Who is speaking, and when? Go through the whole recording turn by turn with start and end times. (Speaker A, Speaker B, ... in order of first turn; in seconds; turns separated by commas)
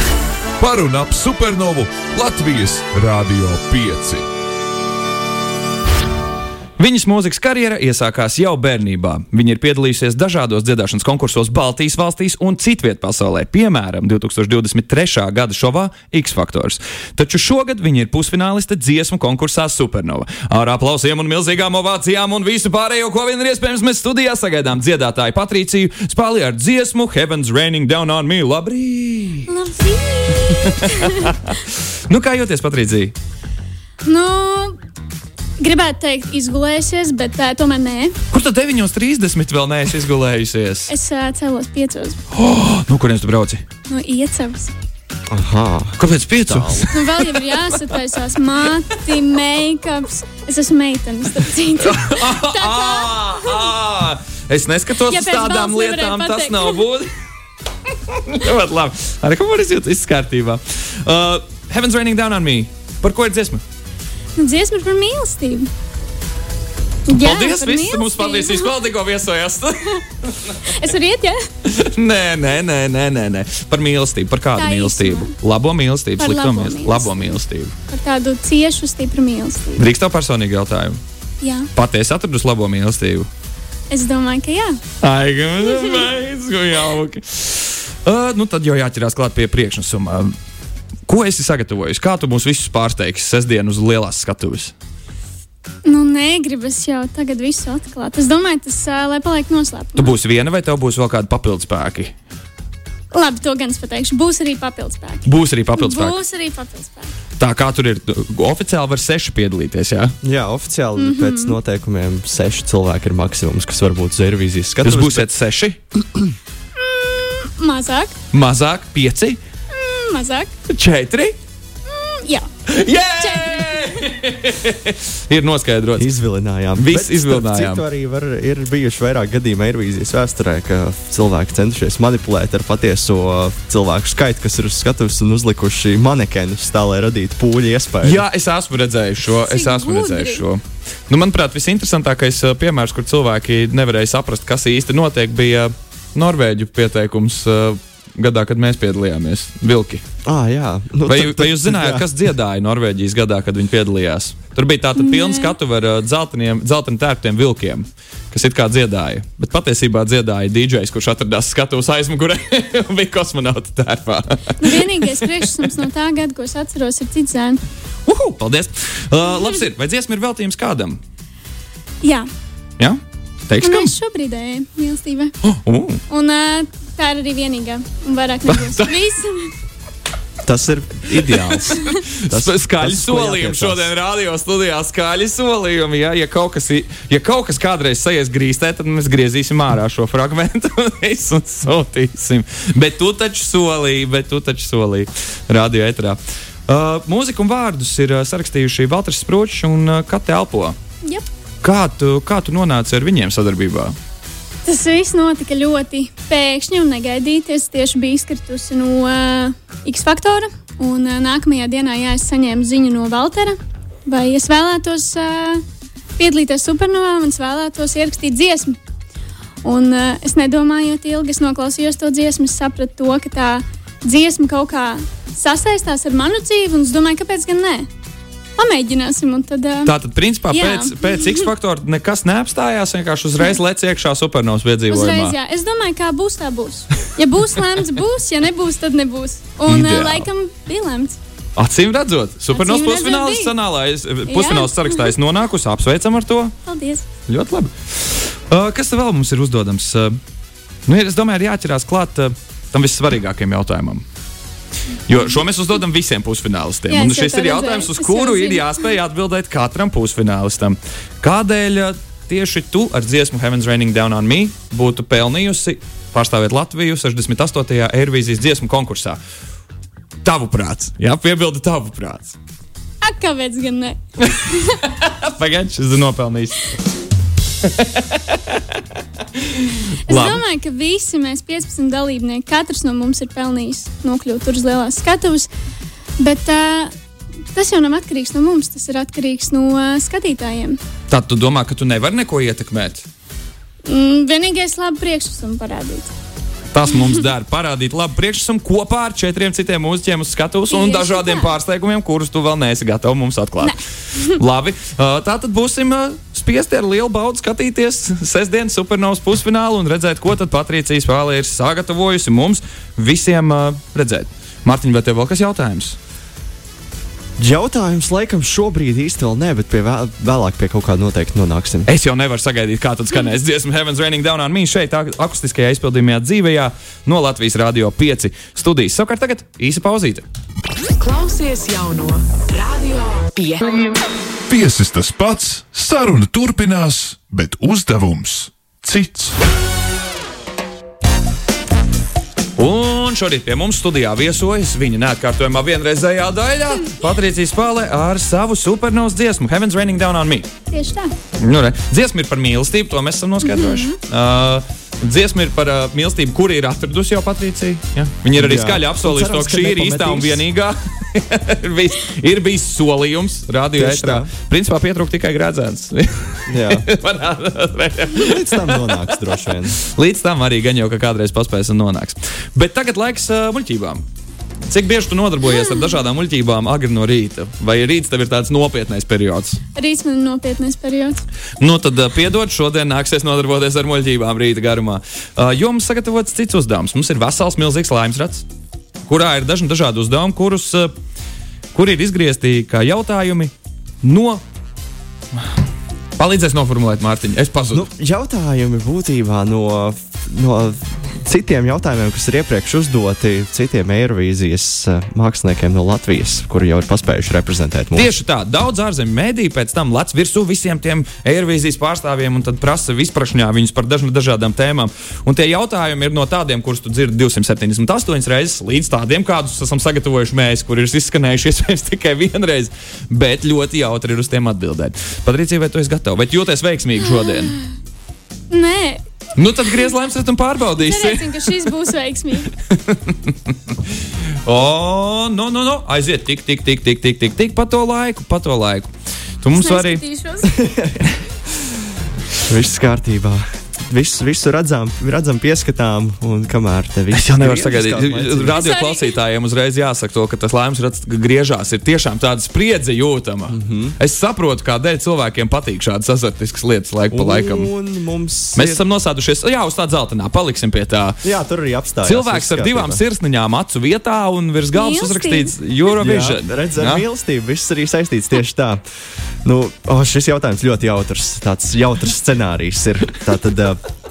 Speaker A: 0.6-4.2, Speaker B: 6.8-29.5, Speaker C: 29.5-31.3, Speaker B: 30.3-33.1, Speaker C: 34.0-34.8, Speaker C: 35.6-38.1, Speaker B: 38.3-40.9, Speaker C: 40.9-42.2, Speaker B: 42.3-43.6, Speaker C: 43.9-44.7, Speaker D: 45.3-46.9, Speaker B: 46.0-48.0, Speaker C: 46.9-53.7, Speaker B: 51.8-57.1, Speaker C: 55.0-56.8, Speaker B: 57.9-63.6, Speaker C: 64.3-65.7, Speaker C: 67.1-68.8, Speaker B: 67.1-70.7, Speaker C: 70.7-71.4, Speaker B: 71.6-77.7, Speaker C: 74.5-75.3, Speaker C: 76.2-77.3, Speaker C: 77.9-79.9, Speaker B: 79.8-81.0, Speaker C: 81.4-81.7, Speaker B: 81.7-83.3, Speaker C: 83.9-84.8, Speaker B: 85.0-90.3, Speaker C: 85.7-85.9, Speaker B: 91.1-94.7, Speaker C: 95.8-100.1, Speaker B: 100.0-102.1, Speaker C: 103.1-107.1, Speaker B: 105.2-106.2, Speaker B: 107.4-110.1, Speaker D: 110.2-115.2, Speaker C: 111.0-111.5, Speaker B: 114.8-115.8, Speaker C: 116.8-118.1, Speaker B: 118.3-119.4, Speaker C: 119.7-120.5, Speaker B: 120.7-121.3, Speaker C: 121.8-122.5, Speaker B: 122.7-126.1, Speaker C: 123.2-123.6, Speaker D: 126.0-138.2, Speaker B: 126.8-127.8, Speaker B: 138.0-150.0, Speaker C: 139.4-140.4, Speaker D: 150.2-152.0, Speaker B: 151.1-165.5, Speaker C: 155.0-155.5, Speaker C: 164.6-167.6, Speaker B: 168.1-171.0, Speaker C: 172.0-172.3, Speaker B: 172.8-173.9, Speaker C: 173.6-175.3, Speaker B: 175.4-176.0, Speaker C: 176.1-179.5, Speaker B: 178.5-179.0, Speaker D: 180.4-183.8, Speaker B: 181.2-200.8, Speaker B: 201.6-203.9, Speaker C: 204.6-215.6, Speaker C: 216.2-218.8, Speaker C: 219.6-227.9, Speaker C: 228.6-229.9, Speaker B: 229.8-235.3, Speaker C: 230.5-231.5, Speaker C: 234.9-241.2, Speaker B: 239.7-240.3, Speaker B: 241.6-246.5, Speaker C: 242.5-243.6, Speaker C: 244.2-245.1, Speaker C: 246.6-247.1, Speaker B: 247.3-250.1, Speaker B: 250.9-254.0, Speaker B: 255.1-269.2, Speaker C: 256.9-258.9, Speaker B: 270.2-272.3, Speaker C: 273.0-274.8, Speaker B: 274.9-276.7, Speaker B: 277.6-278.8, Speaker B: 279.4-280.4, Speaker C: 280.1-285.5, Speaker C: 286.2-286.9, Speaker C: 287.5-290.8, Speaker B: 291.1-293.0, Speaker C: 293.8-296.1, Speaker B: 296.7-303.8, Speaker C: 296.9-297.2, Speaker C: 300.7-301.5, Speaker C: 303.6-304.4, Speaker B: 304.3-316.0, Speaker D: 317.4-321.9, Speaker B: 321.9-330.2, Speaker E: 331.0-333.9, Speaker A: 334.5-339.3, Speaker B: 342.6-350.5, Speaker C: 350.7-351.1, Speaker B: 351.4-374.0, Speaker C: 353.4-354.0, Speaker D: 358.4-360.4, Speaker D: 363.7-364.3, Speaker D: 366.5-366.8, Speaker D: 368.2-369.8, Speaker B: 374.6-379.6, Speaker C: 375.4-375.8, Speaker C: 379.7-381.2, Speaker B: 381.6-388.4, Speaker B: 389.1-390.9, Speaker B: 391.7-393.5, Speaker B: 394.0-394.4, Speaker B: 396.2-397.9, Speaker D: 397.7-408.1, Speaker B: 407.9-427.5, Speaker C: 427.3-427.6, Speaker C: 428.5-429.0, Speaker B: 429.4-431.7, Speaker C: 430.8-432.5, Speaker B: 432.7-433.8, Speaker B: 434.4-438.9, Speaker B: 439.4-440.0, Speaker C: 439.5-440.6, Speaker D: 440.5-441.2, Speaker D: 442.4-448.6, Speaker B: 447.1-457.7, Speaker C: 448.5-449.1, Speaker D: 453.5-453.9, Speaker D: 457.1-458.8, Speaker B: 458.5-461.2, Speaker D: 461.2-463.0, Speaker B: 462.0-467.0, Speaker C: 464.7-465.5, Speaker D: 465.9-468.8, Speaker D: 469.4-473.8